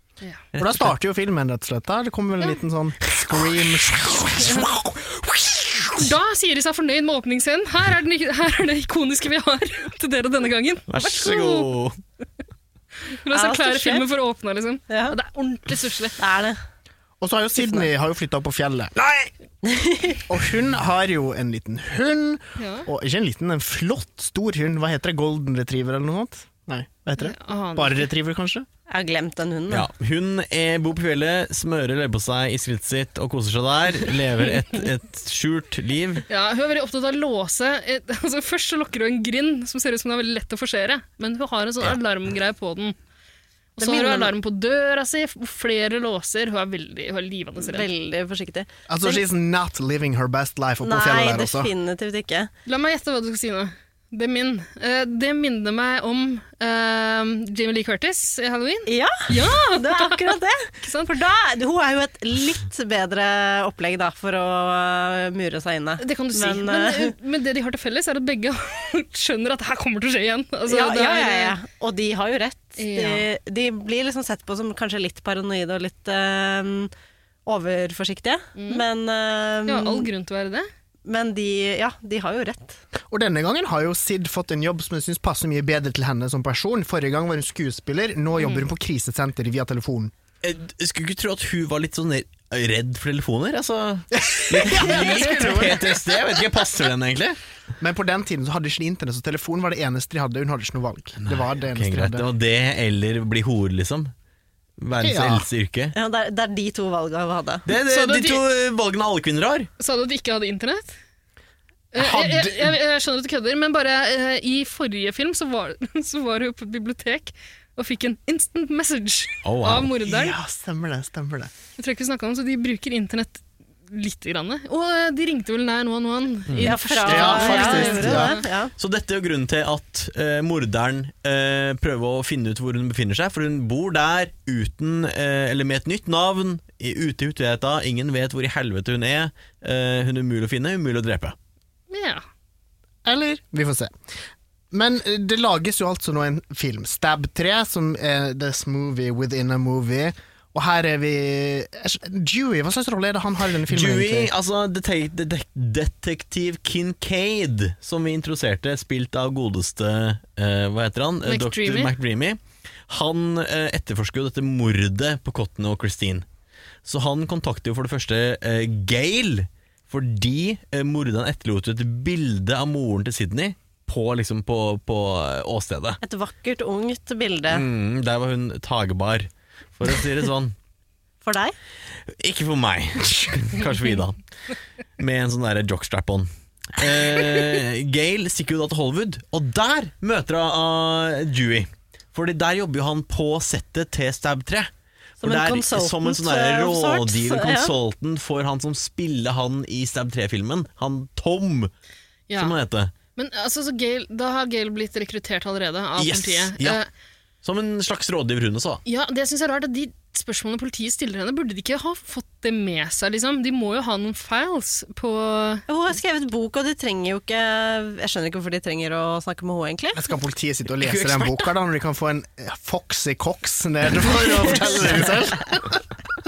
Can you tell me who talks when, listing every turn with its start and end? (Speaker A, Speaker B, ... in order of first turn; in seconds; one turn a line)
Speaker A: 0.5-0.9
Speaker B: 0.6-5.5
Speaker A: 3.1-4.3
Speaker C: 4.4-4.8
Speaker C: 5.9-11.7
Speaker A: 10.9-12.0
Speaker C: 13.1-16.2
Speaker D: 13.3-14.1
Speaker D: 14.9-15.2
Speaker D: 16.2-16.6
Speaker B: 17.2-18.9
Speaker A: 19.0-19.3
Speaker D: 19.6-20.2
Speaker B: 20.3-28.7
Speaker C: 22.6-22.9
Speaker C: 27.2-28.1
Speaker D: 28.9-29.9
Speaker A: 29.7-36.2
Speaker C: 36.3-43.0
Speaker D: 43.8-44.3
Speaker C: 43.8-47.9
Speaker D: 47.6-49.2
Speaker B: 48.9-51.7
Speaker D: 50.8-52.5
Speaker C: 52.7-61.1
Speaker D: 58.9-67.2
Speaker C: 66.0-71.6
Speaker D: 70.7-76.9
Speaker C: 72.8-73.3
Speaker D: 77.5-80.1
Speaker C: 78.6-78.8
Speaker C: 79.7-80.7
Speaker D: 81.1-82.8
Speaker B: 83.1-90.1
Speaker C: 88.4-88.7
Speaker A: 90.4-97.4
Speaker B: 94.1-96.4
Speaker B: 97.8-102.3
Speaker A: 101.2-104.1
Speaker A: 104.8-105.9
Speaker B: 105.0-105.5
Speaker D: 105.9-107.7
Speaker A: 107.7-109.7
Speaker C: 107.8-108.4
Speaker C: 109.8-110.9
Speaker C: 111.9-120.4
Speaker B: 112.0-112.7
Speaker A: 119.4-119.9
Speaker B: 120.0-121.5
Speaker C: 121.8-128.4
Speaker A: 126.5-128.2
Speaker D: 126.6-128.7
Speaker B: 127.0-128.4
Speaker A: 128.8-141.3
Speaker C: 141.9-142.2
Speaker B: 143.1-144.0
Speaker B: 144.7-154.3
Speaker A: 153.7-166.2
Speaker C: 161.3-161.9
Speaker A: 166.8-176.0
Speaker D: 176.0-177.7
Speaker A: 177.5-180.6
Speaker D: 181.2-181.6
Speaker A: 182.1-184.2
Speaker A: 185.0-194.7
Speaker D: 195.2-197.7
Speaker A: 195.2-201.7
Speaker C: 202.3-202.6
Speaker A: 202.4-202.9
Speaker C: 203.2-206.9
Speaker A: 206.0-206.8
Speaker A: 207.4-208.8
Speaker C: 208.8-215.7
Speaker D: 215.7-220.0
Speaker B: 219.9-225.8
Speaker A: 220.8-221.4
Speaker A: 224.0-225.2